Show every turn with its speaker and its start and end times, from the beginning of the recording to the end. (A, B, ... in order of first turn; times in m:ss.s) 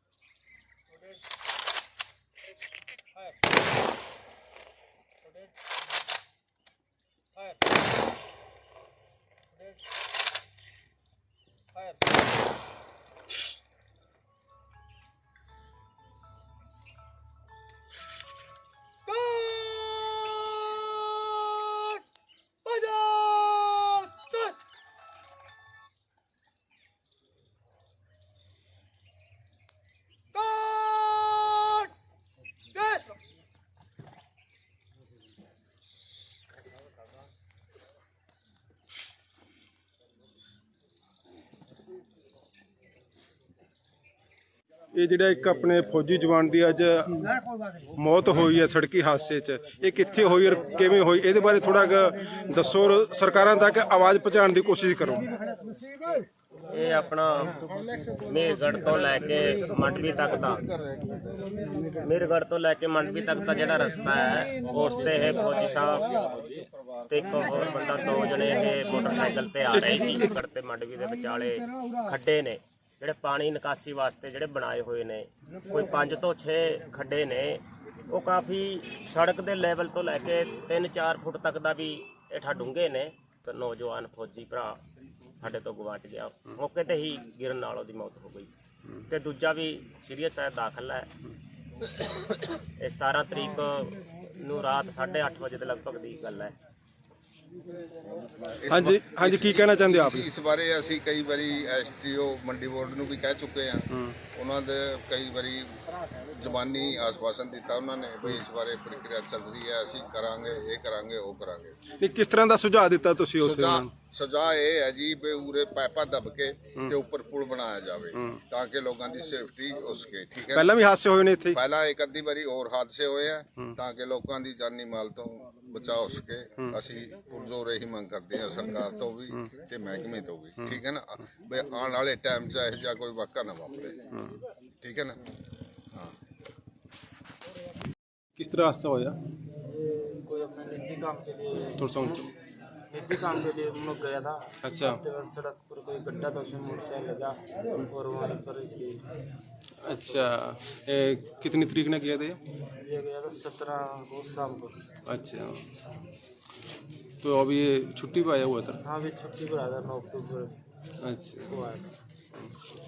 0:19.2-0:22.0 A
0:22.7-0:24.5 A
0:30.4-0:31.9 A
0:32.8-0:33.0 A
0:44.9-0:47.3 B
0:48.0-0:55.2 B
0:56.7-0:57.6 C
0:58.2-1:00.6 C
1:00.7-1:01.2 D
1:02.0-1:06.3 C
1:07.1-1:24.8 C
1:09.7-1:10.4 B
1:25.4-1:28.5 C
1:29.0-1:31.1 C
1:32.8-1:36.5 C
1:38.4-1:45.8 D
1:38.7-1:40.3 B
1:43.9-1:44.2 B
1:46.3-1:51.8 D
1:52.0-1:53.9 B
1:53.4-2:00.7 D
1:58.1-1:58.4 B
2:00.5-2:01.6 B
2:01.5-2:14.1 D
2:14.8-2:15.2 D
2:18.4-2:19.2 B
2:19.7-2:22.2 A
2:21.8-2:22.3 B
2:22.9-2:29.0 A
2:24.6-2:25.0 B
2:29.8-2:32.4 B
2:29.9-2:30.3 A
2:32.8-2:34.8 A
2:35.0-2:35.7 B
2:37.2-2:38.8 B
2:38.8-2:40.6 A
2:41.0-2:41.5 B
2:41.5-2:41.9 A